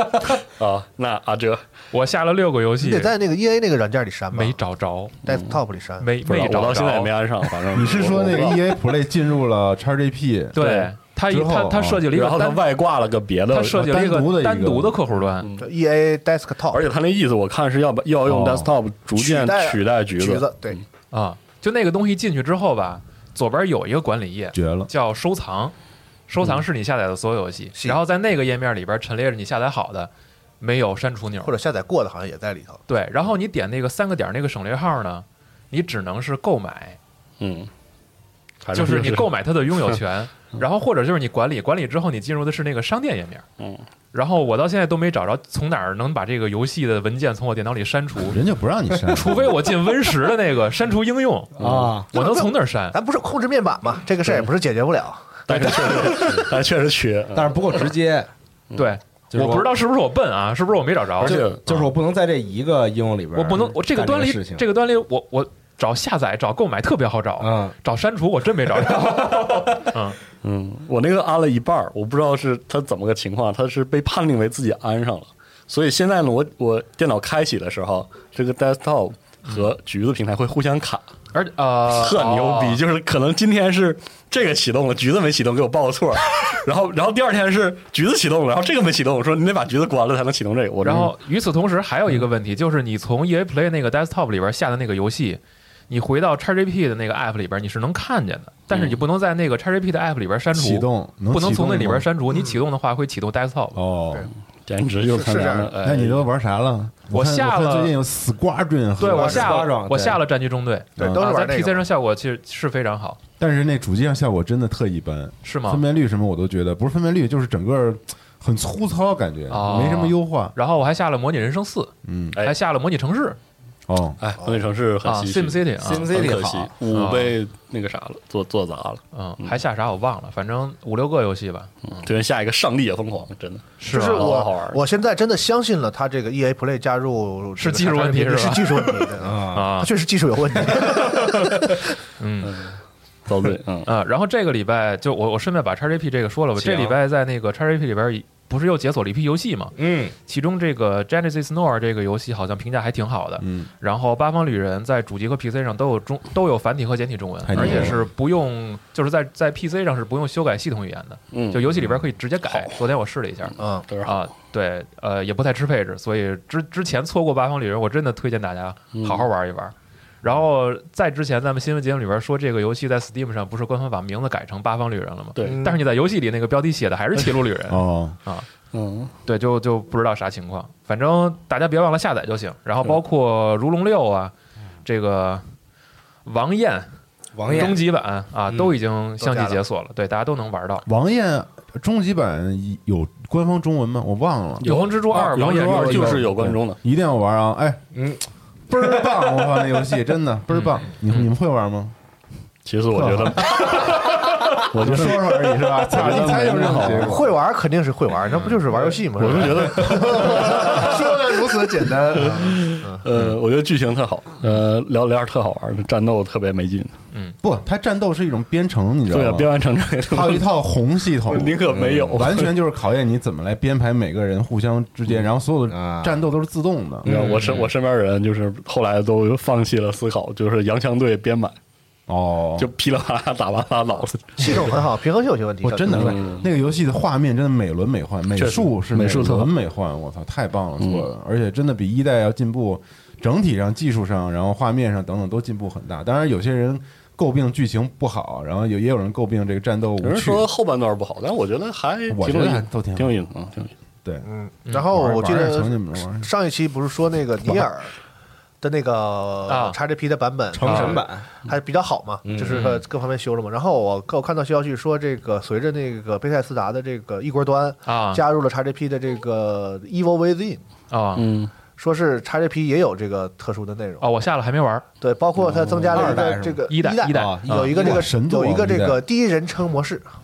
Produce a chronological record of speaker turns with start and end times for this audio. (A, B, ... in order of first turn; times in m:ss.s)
0:00.6-0:01.6 A
0:01.9-0:03.1 B
0:02.8-0:04.6 C
0:04.3-0:05.2 B
0:05.2-0:06.1 C
0:05.3-0:05.6 A
0:06.0-0:07.2 B
0:06.2-0:08.7 A
0:07.7-0:10.6 D
0:10.5-0:12.7 B
0:10.6-0:10.9 A
0:11.3-0:12.1 D
0:12.1-0:13.8 A
0:13.5-0:15.5 B
0:13.7-0:15.0 D
0:15.4-0:15.7 A
0:15.6-0:16.9 C
0:16.7-0:20.8 A
0:18.3-0:18.7 D
0:19.1-0:20.8 C
0:21.1-0:25.7 B
0:24.5-0:24.9 D
0:26.3-0:31.5 B
0:31.4-0:32.8 C
0:32.9-0:37.0 B
0:37.4-0:37.7 A
0:38.6-0:39.3 A
0:38.7-0:43.5 B
0:43.6-0:43.8 A
0:44.1-0:48.4 B
0:48.3-0:49.5 D
0:49.1-0:51.5 B
0:51.6-0:52.0 A
0:51.6-0:52.1 E
0:52.1-0:53.0 B
0:52.1-0:56.4 C
0:55.5-0:57.9 A
0:57.3-0:58.3 E
0:58.8-1:01.9 B
0:59.3-0:59.7 E
1:01.2-1:01.6 A
1:01.2-1:04.6 E
1:03.4-1:10.2 B
1:07.4-1:07.8 E
1:08.8-1:09.7 E
1:10.4-1:21.1 A
1:19.5-1:19.7 B
1:21.3-1:22.8 B
1:21.9-1:31.1 A
1:30.8-1:43.8 B
1:38.7-1:39.0 A
1:40.5-1:42.1 D
1:42.3-1:42.6 C
1:43.8-1:44.3 D
1:44.7-1:46.3 A
1:45.0-1:45.8 C
1:45.8-1:49.5 D
1:47.1-1:47.9 B
1:49.0-1:53.2 B
1:49.1-1:50.2 E
1:51.0-1:51.2 D
1:51.0-1:51.8 C
1:53.4-2:00.6 D
1:55.4-1:55.8 B
1:59.5-2:03.4 B
2:02.0-2:02.4 D
2:03.9-2:04.2 D
2:04.2-2:09.6 A
2:04.4-2:04.7 C
2:05.0-2:06.1 B
2:05.8-2:06.7 E
2:06.9-2:07.4 B
2:09.1-2:12.1 B
2:11.9-2:14.8 A
2:13.8-2:14.3 B
2:13.9-2:21.8 C
2:17.6-2:19.9 B
2:19.2-2:19.7 E
2:22.2-2:22.6 B
2:22.4-2:23.9 A
2:23.9-2:29.7 B
2:26.6-2:27.0 E
2:29.8-2:30.2 E
2:30.3-2:58.5 B
2:33.4-2:33.7 D
2:37.5-2:38.0 D
2:37.6-2:37.9 A
2:41.3-2:41.7 A
2:42.5-2:42.7 A
2:43.6-2:43.9 C
2:43.9-2:44.2 A
2:48.9-2:49.3 A
2:55.4-2:55.7 A
2:55.4-2:55.8 C
2:57.7-2:58.2 D
2:58.7-2:59.1 A
2:59.3-3:04.3 B
3:04.8-3:05.4 B
3:06.3-3:06.9 B
3:07.4-3:07.8 E
3:07.5-3:10.9 B
3:08.5-3:08.7 E
3:09.2-3:09.6 C
3:10.9-3:17.9 D
3:14.6-3:16.8 A
3:14.6-3:16.2 B
3:18.0-3:18.2 E
3:18.7-3:21.9 D
3:18.8-3:19.7 E
3:20.5-3:21.3 B
3:22.6-3:24.1 A
3:23.0-3:27.4 D
3:24.7-3:27.2 A
3:26.8-3:33.1 C
3:29.2-3:30.7 A
3:29.8-3:32.4 D
3:32.2-3:36.9 A
3:37.4-3:47.1 D
3:39.1-3:40.5 A
3:41.2-3:42.5 A
3:41.7-3:42.3 E
3:45.7-3:46.2 E
3:47.0-3:51.6 A
3:47.1-3:47.7 B
3:52.1-3:52.7 D
3:52.6-3:54.8 A
3:54.4-3:56.2 C
3:55.6-4:10.5 D
3:55.9-3:56.5 A
3:58.4-3:59.5 A
4:00.8-4:01.1 A
4:10.0-4:13.7 A
4:12.1-4:13.2 D
4:14.2-4:17.9 C
4:14.9-4:16.3 D
4:18.6-4:30.6 C
4:19.5-4:19.8 B
4:20.5-4:21.3 E
4:20.6-4:21.0 B
4:22.2-4:22.6 E
4:22.5-4:22.8 B
4:27.8-4:28.2 B
4:30.9-4:31.3 B
4:31.2-4:31.5 A
4:31.7-4:34.1 C
4:34.0-4:34.8 B
4:35.0-4:40.1 C
4:35.5-4:35.9 A
4:35.9-4:37.9 E
4:36.7-4:37.8 B
4:37.7-4:39.0 D